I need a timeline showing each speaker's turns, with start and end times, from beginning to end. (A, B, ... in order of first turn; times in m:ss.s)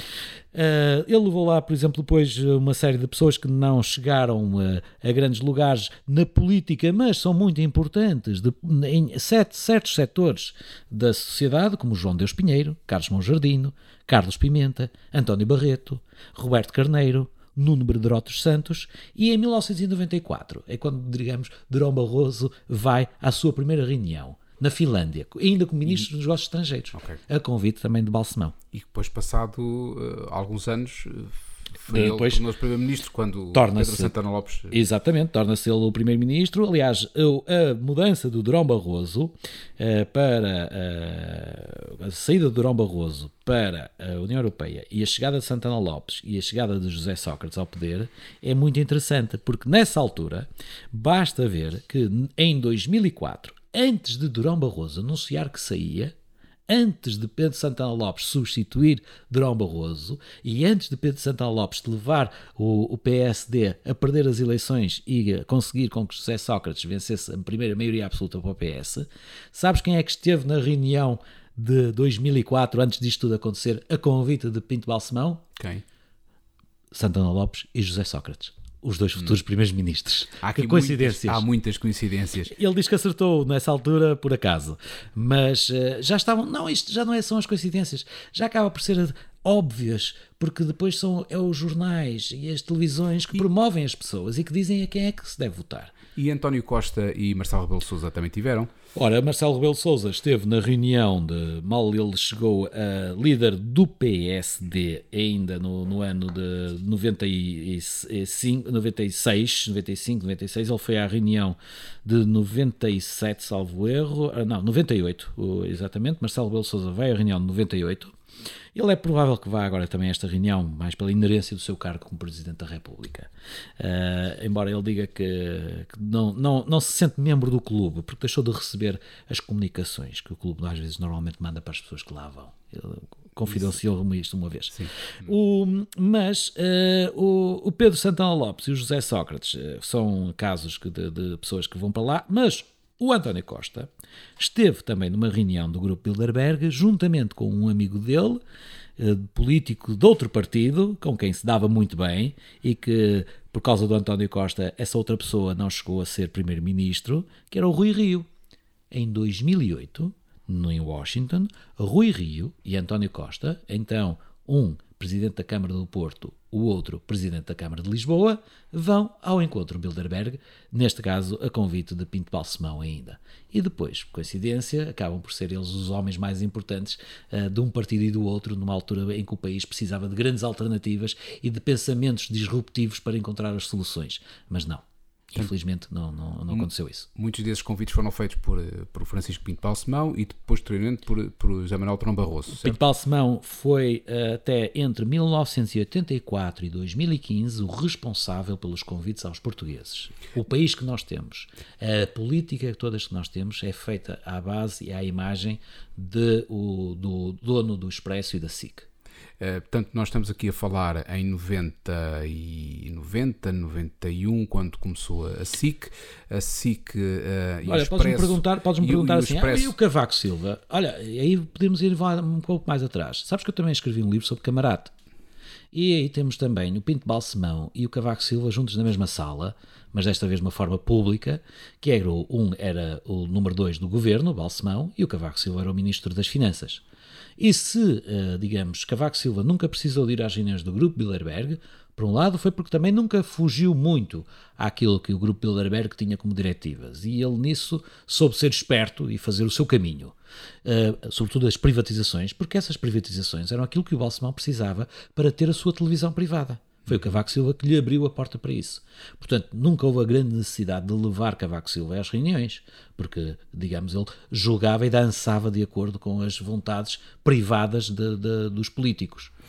0:00.5-0:28.6 A
0:26.9-0:27.2 B
0:28.7-0:34.8 B
0:31.9-0:32.5 A
0:33.5-0:34.2 A
0:34.7-0:56.2 A
0:56.7-1:15.4 A
1:15.6-1:15.8 B
1:16.9-1:21.5 A
1:20.4-1:22.6 B
1:22.5-1:36.0 A
1:36.2-1:38.7 B
1:39.0-1:58.1 A
1:58.7-2:28.4 A
2:14.8-2:15.1 B
2:29.0-2:38.3 A
2:38.9-3:07.1 A
3:06.5-3:12.8 B
3:12.5-3:28.9 A
3:29.4-3:39.8 B
3:37.6-3:44.9 A
3:45.7-3:56.8 A
3:57.4-4:10.1 A
4:10.6-4:29.3 A